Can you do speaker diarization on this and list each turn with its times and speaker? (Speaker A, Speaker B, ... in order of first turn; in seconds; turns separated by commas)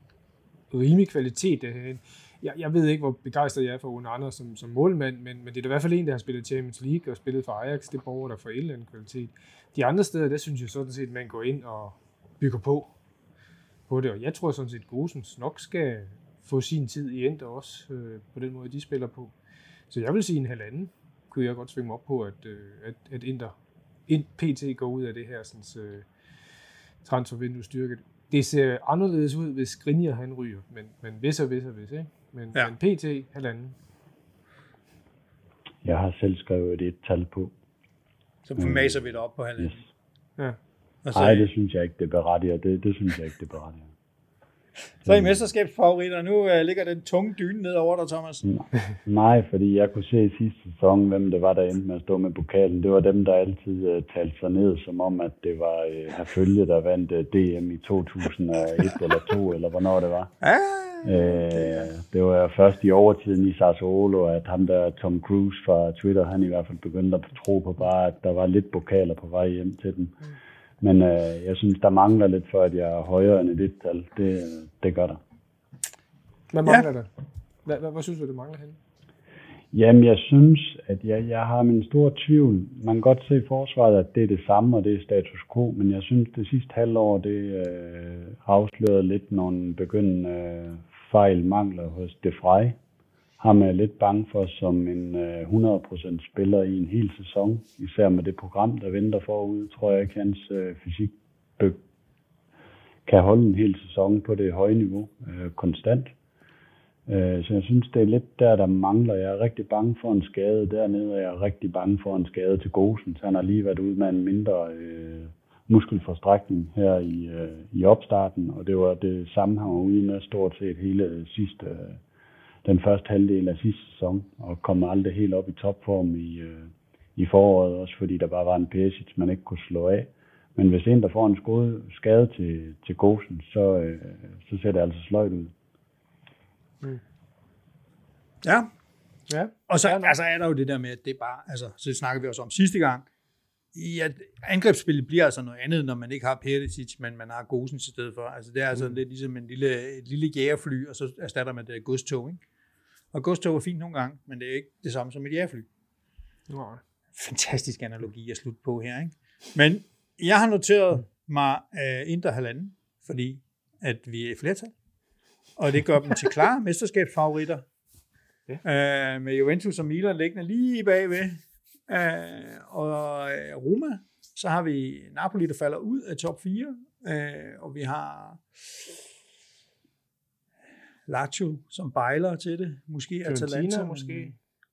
Speaker A: 0.7-12.9, Speaker A: 13.9-19.3, Speaker A: 19.9-23.5, Speaker A: 24.1-26.1, Speaker A: 27.0-33.8, Speaker B: 35.8-37.5, Speaker C: 38.4-39.8, Speaker B: 38.6-39.0, Speaker C: 41.0-41.5, Speaker B: 41.1-43.9, Speaker C: 45.0-48.4, Speaker B: 45.0-45.4, Speaker B: 48.4-60.3, Speaker C: 60.4-61.9, Speaker B: 61.0-70.2, Speaker B: 70.8-75.2, Speaker A: 76.5-77.1, Speaker A: 77.6-78.8, Speaker B: 79.7-92.8, Speaker B: 93.4-101.8, Speaker B: 103.0-106.1, Speaker B: 107.1-122.0, Speaker B: 122.6-135.5, Speaker C: 138.4-138.7, Speaker A: 139.3-140.1, Speaker C: 139.7-143.1, Speaker C: 143.7-152.4, Speaker C: 153.1-155.7, Speaker A: 156.5-156.8, Speaker C: 157.2-164.7, Speaker C: 165.6-167.6, Speaker C: 168.6-178.4, Speaker C: 181.1-184.3, Speaker A: 183.2-184.3